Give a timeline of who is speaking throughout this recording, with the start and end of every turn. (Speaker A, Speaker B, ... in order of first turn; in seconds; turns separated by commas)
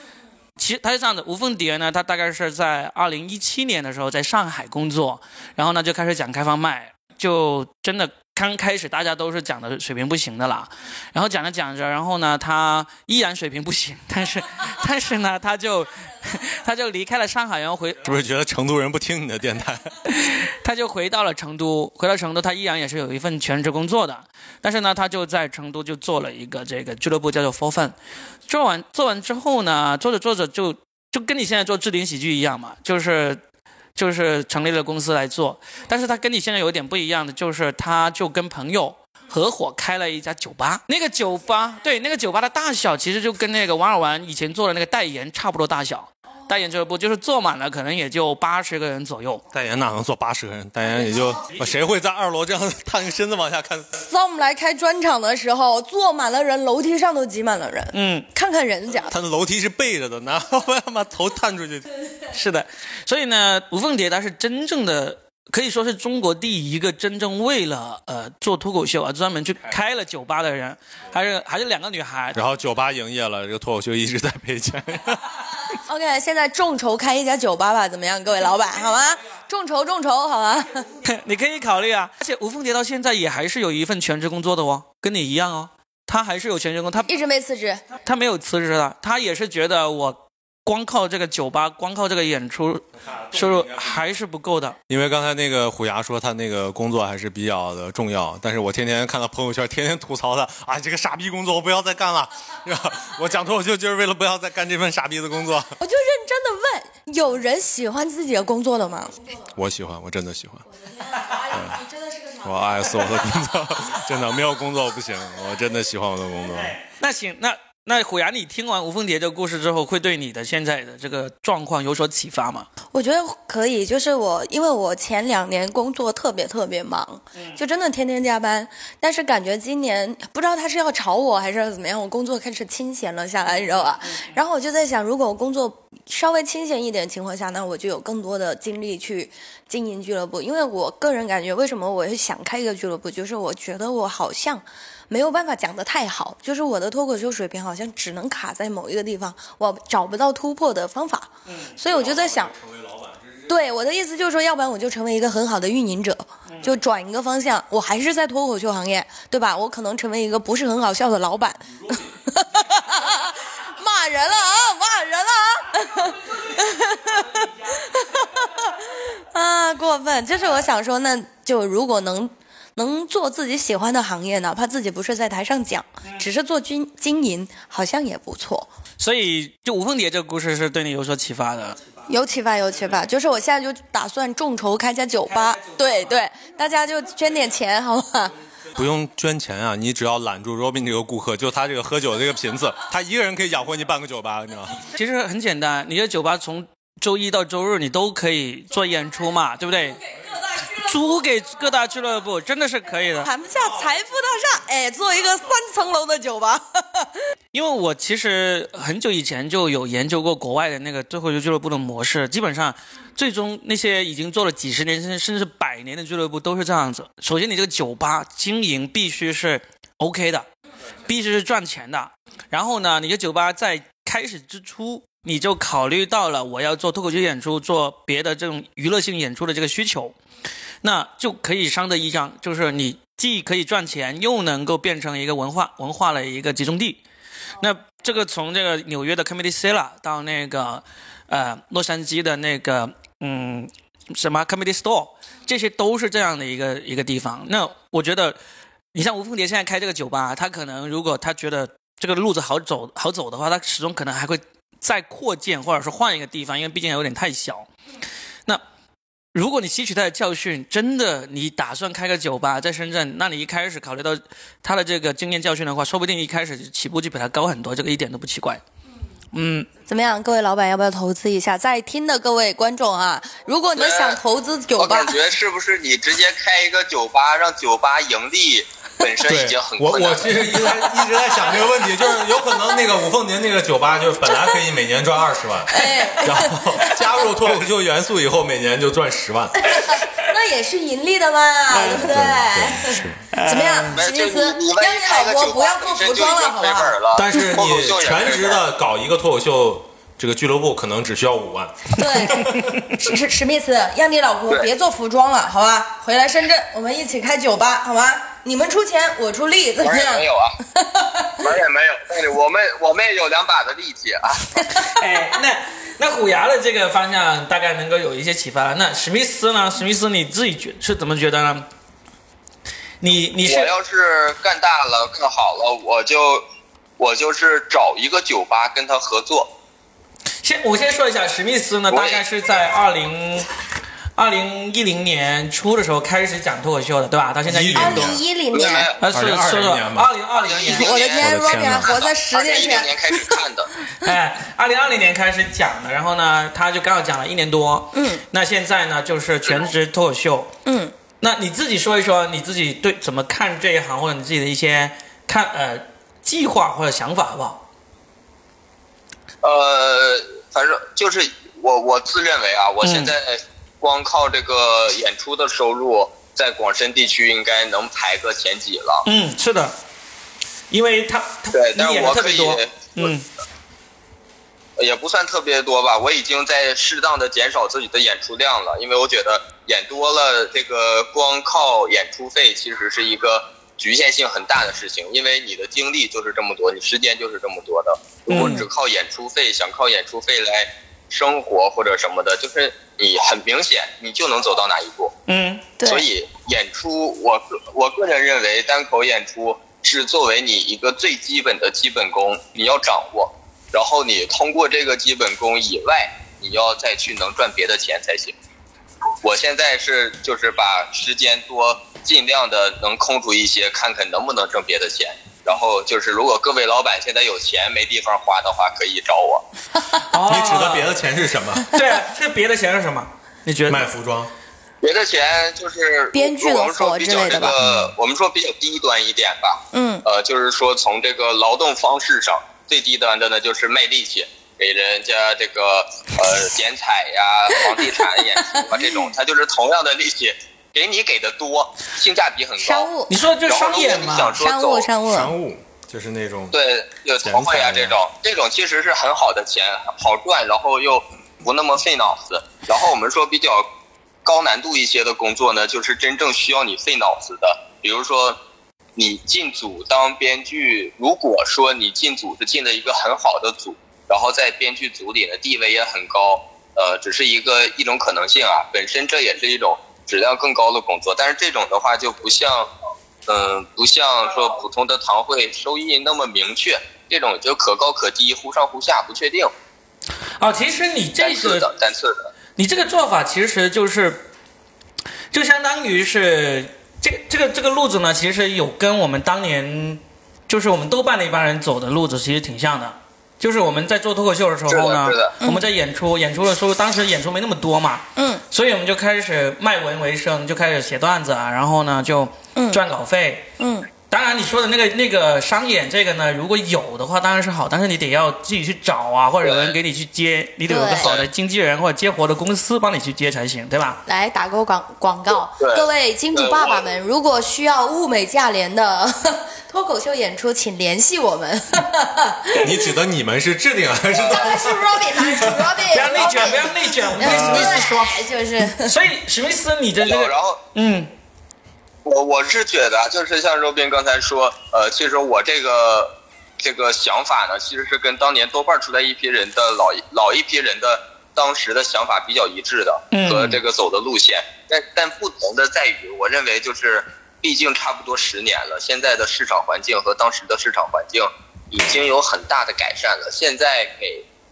Speaker A: 0.6-18.1, Speaker B: 18.0-20.0, Speaker A: 20.1-28.0, Speaker A: 28.5-33.4, Speaker A: 34.0-49.4, Speaker B: 49.5-54.0, Speaker C: 54.0-59.1, Speaker A: 57.9-58.3, Speaker B: 59.1-61.9, Speaker A: 62.3-72.4, Speaker B: 72.3-75.6, Speaker C: 75.8-80.9, Speaker A: 81.0-87.1, Speaker C: 87.1-87.8, Speaker A: 88.0-94.8, Speaker B: 93.1-94.0, Speaker B: 94.9-105.8, Speaker C: 105.8-109.4, Speaker B: 109.5-110.7, Speaker C: 110.8-112.8, Speaker B: 111.5-111.8, Speaker B: 112.4-116.8, Speaker A: 116.6-122.7, Speaker C: 122.9-152.5, Speaker A: 134.0-134.4, Speaker A: 151.5-151.8, Speaker B: 151.8-153.5, Speaker C: 153.5-178.7, Speaker A: 179.0-181.9, Speaker C: 182.1-188.3, Speaker B: 188.8-194.8, Speaker A: 194.8-200.0, Speaker A: 200.6-203.3, Speaker C: 203.2-207.1, Speaker A: 207.5-220.5, Speaker A: 221.1-230.2, Speaker A: 230.8-237.0, Speaker A: 237.6-248.4, Speaker A: 248.9-257.7, Speaker A: 259.3-268.6, Speaker A: 269.3-269.7, Speaker C: 269.9-275.2, Speaker D: 273.8-274.2, Speaker D: 274.8-280.8, Speaker B: 279.3-289.9, Speaker C: 285.7-287.1, Speaker C: 289.6-296.9, Speaker B: 291.7-293.3, Speaker A: 293.3-294.0, Speaker D: 293.9-298.6, Speaker B: 297.1-302.7, Speaker C: 301.9-311.5, Speaker D: 309.8-310.6, Speaker D: 311.4-314.7, Speaker A: 314.8-321.7, Speaker A: 323.0-323.7, Speaker D: 323.4-326.4, Speaker D: 327.0-329.5, Speaker A: 330.4-333.5, Speaker D: 331.9-332.2, Speaker A: 334.2-338.1, Speaker B: 337.5-338.2, Speaker C: 337.8-338.9, Speaker D: 338.5-339.0, Speaker A: 339.0-340.9, Speaker B: 339.1-340.1, Speaker D: 340.4-343.7, Speaker C: 340.7-343.4, Speaker B: 341.2-341.9, Speaker A: 344.0-350.5, Speaker C: 347.9-348.2, Speaker C: 350.7-350.9, Speaker A: 351.2-357.6, Speaker D: 359.4-369.1, Speaker A: 362.8-363.1, Speaker A: 369.1-369.8, Speaker A: 370.7-373.3, Speaker D: 371.5-373.1, Speaker D: 374.8-395.1, Speaker A: 388.3-388.6, Speaker A: 395.3-395.7, Speaker C: 395.8-396.1, Speaker D: 395.8-408.4, Speaker D: 409.2-419.4, Speaker A: 420.1-420.9, Speaker B: 420.2-421.7, Speaker A: 421.7-423.9, Speaker B: 423.7-424.3, Speaker D: 424.8-442.9, Speaker C: 426.1-427.6, Speaker B: 427.5-427.9, Speaker C: 429.7-430.0, Speaker C: 442.6-443.1, Speaker A: 443.1-444.4, Speaker D: 443.5-444.9, Speaker C: 444.4-445.3, Speaker B: 445.1-446.6, Speaker D: 446.5-453.7, Speaker B: 447.2-448.0, Speaker D: 454.2-458.4, Speaker D: 459.0-472.7, Speaker D: 473.3-479.5, Speaker A: 480.4-481.7, Speaker D: 481.2-482.3, Speaker A: 482.6-484.3, Speaker A: 485.3-503.5, Speaker D: 494.7-495.4, Speaker C: 495.4-495.7, Speaker C: 498.2-498.4, Speaker C: 502.6-502.8, Speaker C: 503.6-503.9, Speaker A: 504.1-514.0, Speaker D: 509.4-509.8, Speaker C: 510.7-511.1, Speaker D: 511.0-511.3, Speaker C: 514.1-522.9, Speaker D: 515.6-516.9, Speaker B: 522.5-525.8, Speaker C: 524.1-528.9, Speaker A: 525.9-531.1, Speaker B: 527.2-527.8, Speaker D: 530.0-530.6, Speaker D: 532.0-554.3, Speaker A: 543.1-543.6